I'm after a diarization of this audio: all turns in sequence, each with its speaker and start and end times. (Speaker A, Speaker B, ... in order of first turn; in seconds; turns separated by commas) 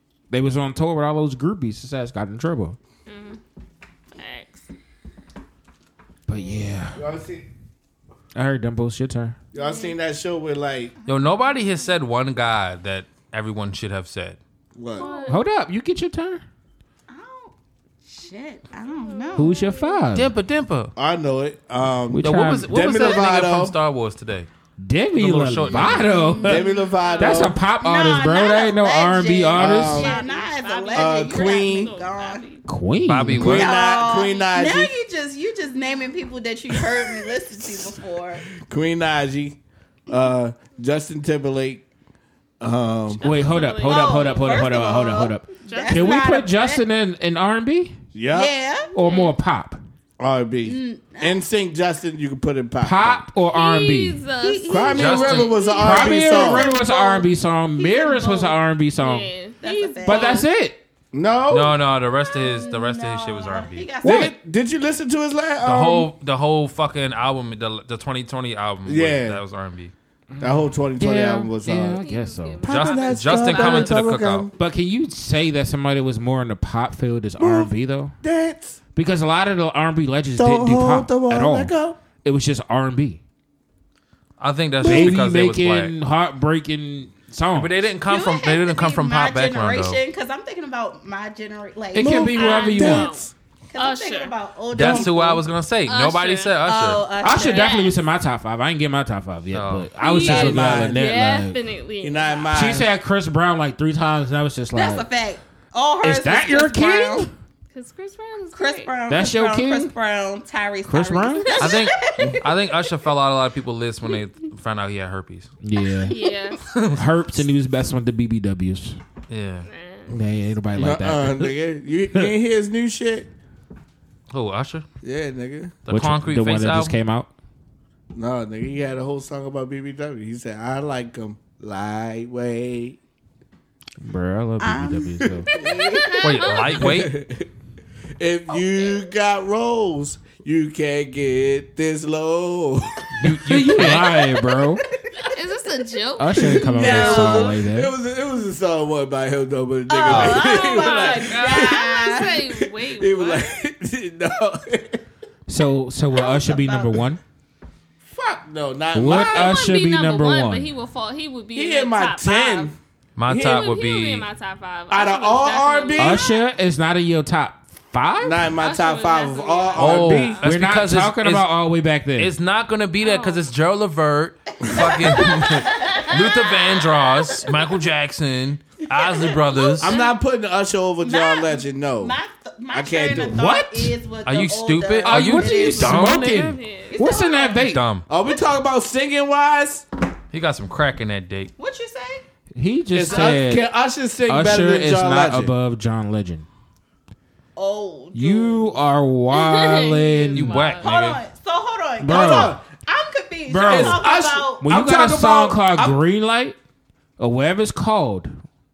Speaker A: 0.3-2.8, Speaker B: 3.1-3.4, Speaker B: 4.2-4.7, Speaker A: 6.3-7.0, Speaker B: 6.4-6.7, Speaker C: 7.0-7.5, Speaker A: 8.3-9.4, Speaker C: 9.5-10.9, Speaker B: 9.6-9.9, Speaker D: 11.1-11.7, Speaker E: 11.1-14.4, Speaker C: 14.8-15.1, Speaker B: 14.9-15.4, Speaker D: 15.0-15.2, Speaker A: 15.3-16.4, Speaker D: 17.1-19.6, Speaker B: 18.8-20.1, Speaker A: 19.4-20.3, Speaker E: 20.1-20.9, Speaker C: 21.0-23.8, Speaker A: 22.1-22.7, Speaker E: 22.2-24.5, Speaker A: 24.8-26.6, Speaker E: 25.2-26.1, Speaker D: 25.7-27.3, Speaker C: 26.4-27.6, Speaker B: 26.6-27.4, Speaker A: 27.2-30.1, Speaker D: 27.8-32.5, Speaker C: 29.5-30.2, Speaker B: 30.0-32.7, Speaker C: 30.9-32.0, Speaker A: 32.7-33.8, Speaker E: 33.1-33.8, Speaker C: 33.3-34.9, Speaker D: 33.5-38.5, Speaker C: 36.7-37.9, Speaker C: 38.6-41.9, Speaker C: 42.6-43.2, Speaker B: 43.1-44.8, Speaker A: 43.2-48.0, Speaker D: 43.8-46.8, Speaker B: 45.7-46.3, Speaker C: 48.1-48.5, Speaker D: 48.3-49.0, Speaker A: 48.9-49.8, Speaker B: 49.0-49.4, Speaker C: 50.2-53.2, Speaker D: 50.6-51.4, Speaker A: 52.8-54.2, Speaker B: 53.5-55.8, Speaker D: 54.4-58.6, Speaker C: 54.7-56.7, Speaker E: 55.0-55.6, Speaker A: 55.8-59.3, Speaker B: 59.0-60.5, Speaker D: 59.6-60.5, Speaker A: 60.0-60.8, Speaker C: 61.1-61.8, Speaker E: 61.5-63.9, Speaker D: 62.2-64.3, Speaker A: 64.0-64.3, Speaker C: 64.0-66.1, Speaker E: 65.6-69.9, Speaker C: 68.8-69.4, Speaker A: 70.3-72.7, Speaker C: 70.4-72.0, Speaker B: 72.0-74.0, Speaker E: 72.6-74.5, Speaker C: 72.6-74.5, Speaker A: 74.6-78.2, Speaker C: 77.4-78.8, Speaker A: 79.0-83.2, Speaker C: 80.3-82.0, Speaker E: 84.4-85.9, Speaker C: 84.8-85.2, Speaker A: 84.8-87.8, Speaker E: 87.5-90.0, Speaker D: 88.1-92.8, Speaker A: 91.9-93.1, Speaker C: 92.0-93.3, Speaker B: 92.3-94.3, Speaker D: 93.7-95.4, Speaker E: 94.7-97.1, Speaker C: 94.8-95.1, Speaker B: 95.9-96.6, Speaker D: 96.6-97.8, Speaker A: 97.2-101.6, Speaker B: 97.2-98.0, Speaker E: 99.5-99.9, Speaker B: 100.0-102.5, Speaker C: 100.2-101.1, Speaker C: 102.0-102.9, Speaker D: 102.5-102.8, Speaker A: 102.5-105.1, Speaker D: 104.8-107.3, Speaker A: 106.0-107.3, Speaker B: 107.7-108.9, Speaker D: 108.5-112.9, Speaker A: 109.1-109.9, Speaker A: 110.9-111.5, Speaker B: 111.4-111.8, Speaker E: 111.6-115.5, Speaker A: 115.6-116.2, Speaker B: 116.0-116.7, Speaker D: 116.0-116.6, Speaker E: 116.6-117.0, Speaker A: 116.9-119.0, Speaker E: 119.3-119.7, Speaker B: 119.7-120.2, Speaker A: 120.1-121.5, Speaker C: 120.7-123.3, Speaker E: 124.3-124.9, Speaker C: 125.0-125.8, Speaker E: 125.9-127.0, Speaker A: 125.9-127.3, Speaker C: 128.1-133.0, Speaker A: 134.0-135.5, Speaker D: 134.6-136.5, Speaker C: 135.2-135.6, Speaker B: 135.5-137.1, Speaker E: 136.2-137.1, Speaker C: 136.8-137.5, Speaker C: 138.2-143.1, Speaker D: 138.5-139.1, Speaker A: 143.2-144.8, Speaker E: 143.2-144.2, Speaker B: 145.2-147.3, Speaker D: 145.4-147.6, Speaker A: 146.2-147.9, Speaker C: 146.7-155.0, Speaker D: 149.9-152.4, Speaker E: 150.1-150.4, Speaker B: 150.1-153.5, Speaker A: 155.5-157.2, Speaker D: 156.1-157.0, Speaker C: 158.1-159.6, Speaker A: 158.9-160.7, Speaker B: 159.1-162.7, Speaker C: 161.6-162.8, Speaker E: 163.2-164.3, Speaker C: 163.3-163.6, Speaker B: 163.3-166.3, Speaker C: 164.9-166.3, Speaker A: 166.0-168.4, Speaker C: 168.2-170.4, Speaker B: 168.6-170.4, Speaker E: 169.8-171.5, Speaker A: 170.4-172.3, Speaker E: 172.2-180.0, Speaker B: 173.0-173.4, Speaker D: 174.6-177.2, Speaker D: 179.0-180.1, Speaker C: 179.8-182.2, Speaker D: 181.0-186.3, Speaker C: 182.7-183.6, Speaker A: 183.3-184.0, Speaker E: 184.2-186.6, Speaker A: 185.1-187.8, Speaker B: 186.3-187.0, Speaker D: 186.9-187.7, Speaker E: 187.6-188.1, Speaker C: 188.1-189.9, Speaker E: 190.3-191.5, Speaker D: 191.6-192.2, Speaker A: 192.6-193.7, Speaker C: 192.9-195.5, Speaker D: 193.1-193.4, Speaker A: 194.3-196.5, Speaker D: 197.6-198.8, Speaker A: 198.1-200.6, Speaker B: 199.3-200.9, Speaker E: 200.3-201.2, Speaker D: 200.8-204.8, Speaker A: 202.0-202.6, Speaker C: 202.1-202.6, Speaker A: 203.5-204.1, Speaker C: 203.7-206.0, Speaker A: 204.6-206.6, Speaker A: 207.2-208.4